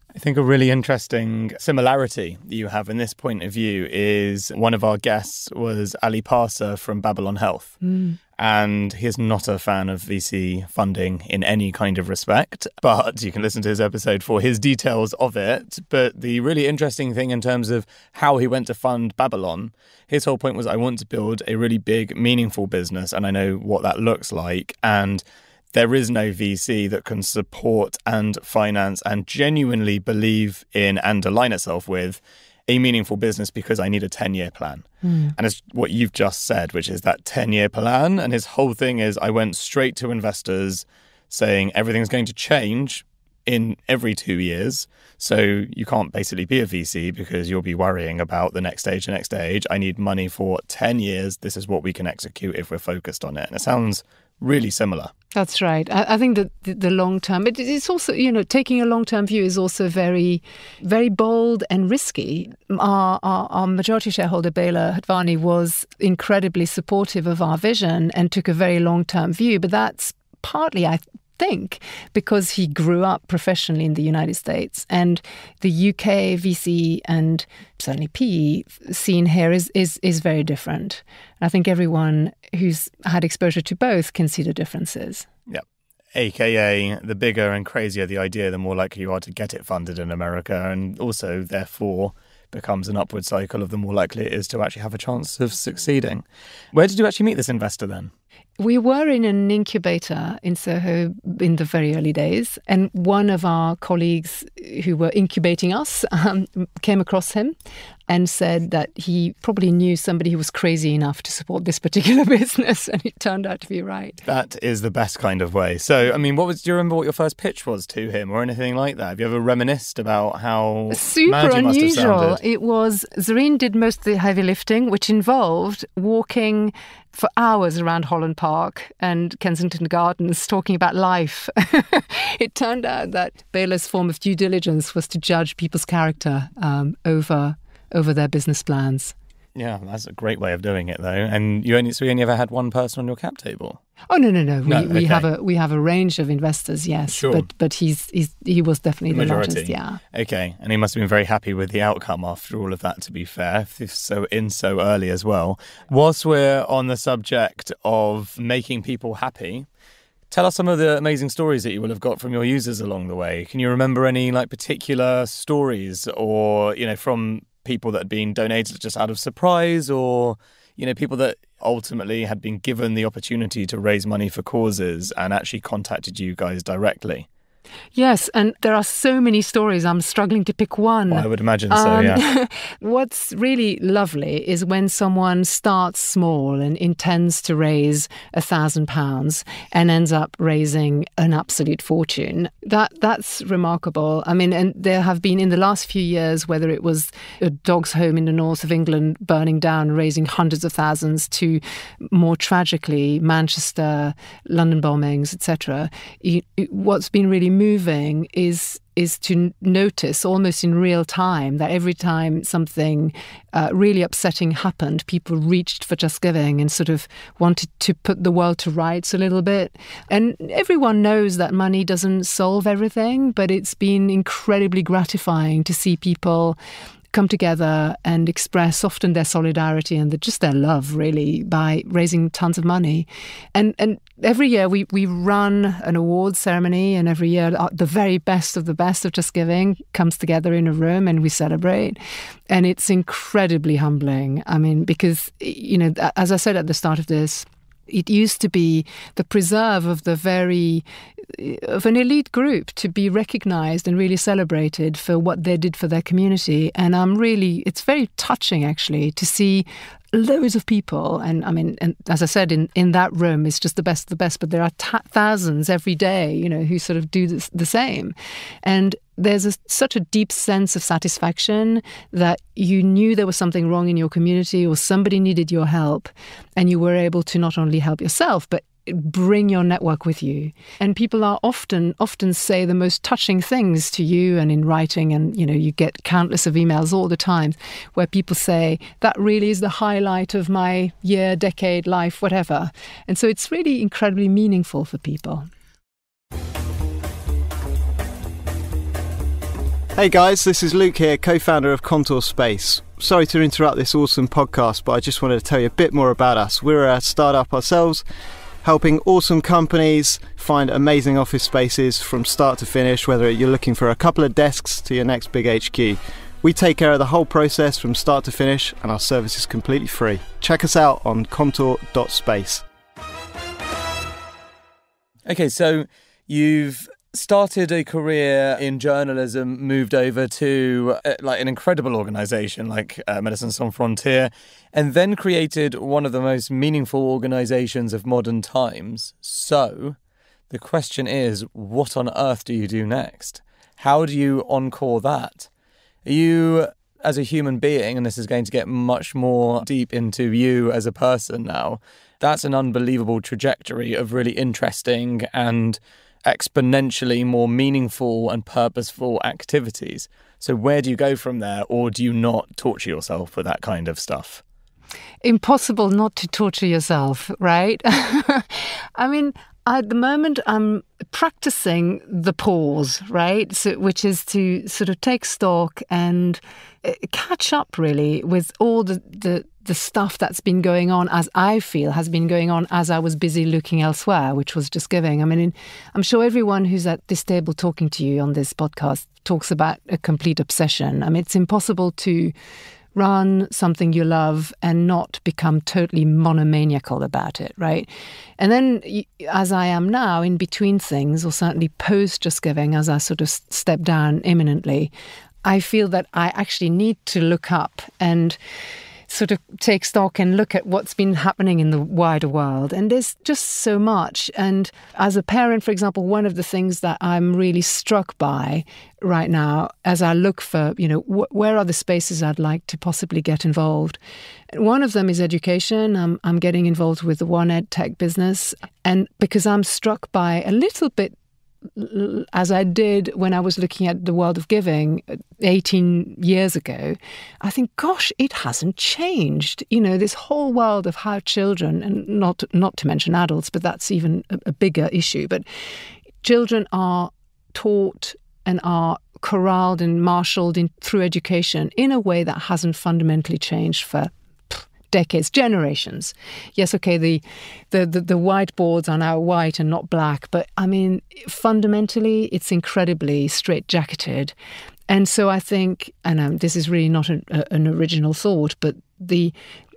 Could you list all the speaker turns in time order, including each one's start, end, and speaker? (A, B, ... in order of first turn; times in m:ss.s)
0:00.1-0:07.8 A
0:07.8-0:08.2 B
0:08.4-0:55.1 A
0:35.0-0:35.3 B
0:55.3-1:25.2 B
1:25.5-1:38.1 A
1:38.6-1:47.5 B
1:48.1-1:54.2 B
1:54.2-2:02.4 A
2:00.9-2:19.1 B
2:19.5-2:23.8 A
2:24.1-2:30.0 B
2:24.6-2:25.2 A
2:27.1-2:27.5 A
2:29.1-2:39.7 A
2:40.3-2:57.3 A
2:57.9-3:46.6 B
3:01.1-3:02.2 A
3:47.1-4:02.0 B
4:02.5-4:55.5 B
5:00.0-5:08.0 C
5:08.6-5:22.6 C
5:25.2-5:40.0 A
5:40.5-5:45.5 A
5:46.0-6:04.4 A
6:05.2-6:32.3 B
6:32.9-6:44.9 B
6:45.4-6:48.4 B
6:49.1-7:04.0 B
7:04.5-7:11.1 B
7:11.8-7:25.4 B
7:26.2-7:44.3 B
7:44.9-7:49.3 B